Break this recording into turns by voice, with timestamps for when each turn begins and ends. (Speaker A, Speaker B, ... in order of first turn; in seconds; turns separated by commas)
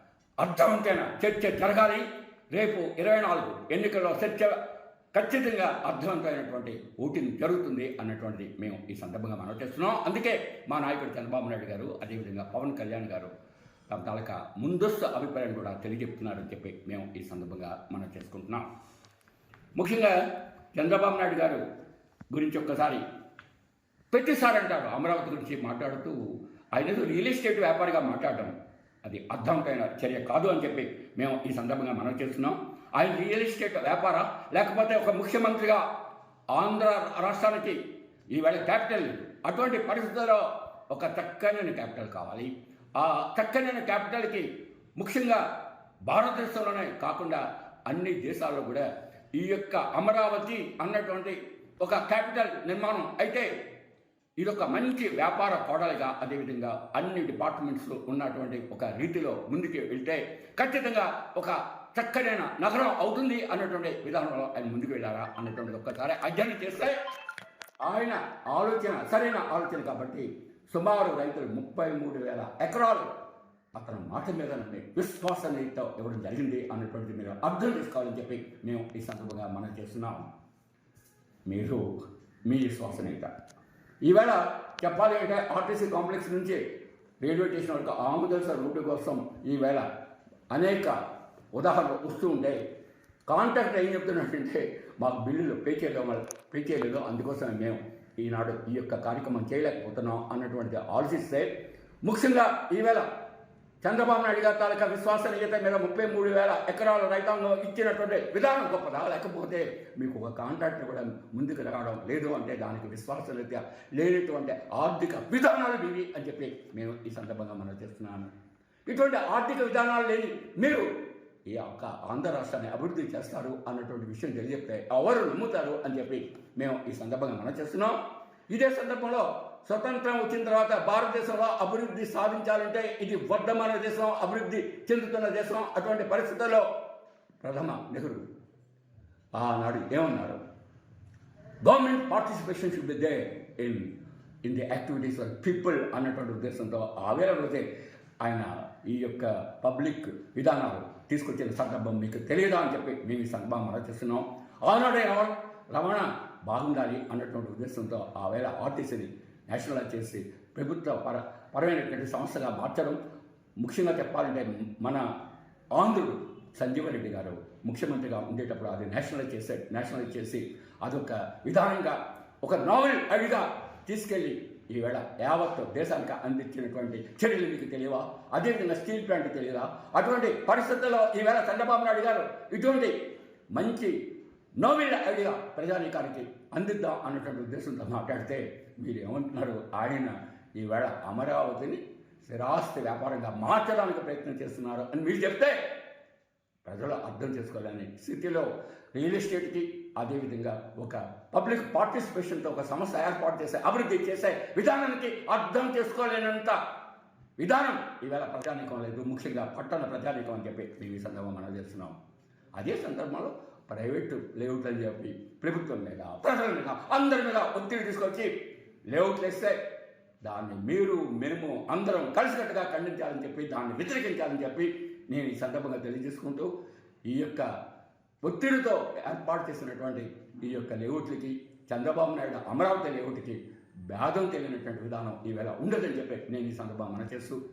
Speaker A: 0.4-4.5, Speaker A: 5.1-13.3, Speaker A: 13.9-18.6, Speaker A: 19.8-20.1, Speaker A: 20.7-21.6, Speaker A: 22.3-23.0, Speaker A: 24.1-26.2, Speaker A: 26.7-35.8, Speaker A: 36.5-37.8, Speaker A: 38.3-45.4, Speaker A: 46.1-53.5, Speaker A: 54.4-67.0, Speaker A: 67.8-73.1, Speaker A: 73.8-80.3, Speaker A: 81.5-81.8, Speaker A: 82.5-83.3, Speaker A: 84.0-86.6, Speaker A: 87.2-89.9, Speaker A: 90.5-91.0, Speaker A: 91.5-92.6, Speaker A: 93.3-101.5, Speaker A: 102.0-103.1, Speaker A: 103.8-118.3, Speaker A: 118.9-120.8, Speaker A: 121.5-128.0, Speaker A: 128.5-136.7, Speaker A: 137.4-138.2, Speaker A: 139.3-140.4, Speaker A: 141.6-147.7, Speaker A: 148.2-163.0, Speaker A: 163.6-165.1, Speaker A: 165.8-182.9, Speaker A: 183.5-183.9, Speaker A: 184.6-195.6, Speaker A: 196.7-206.6, Speaker A: 207.4-212.0, Speaker A: 212.6-218.3, Speaker A: 218.9-219.6, Speaker A: 220.2-226.5, Speaker A: 227.1-227.5, Speaker A: 228.2-233.4, Speaker A: 233.9-237.4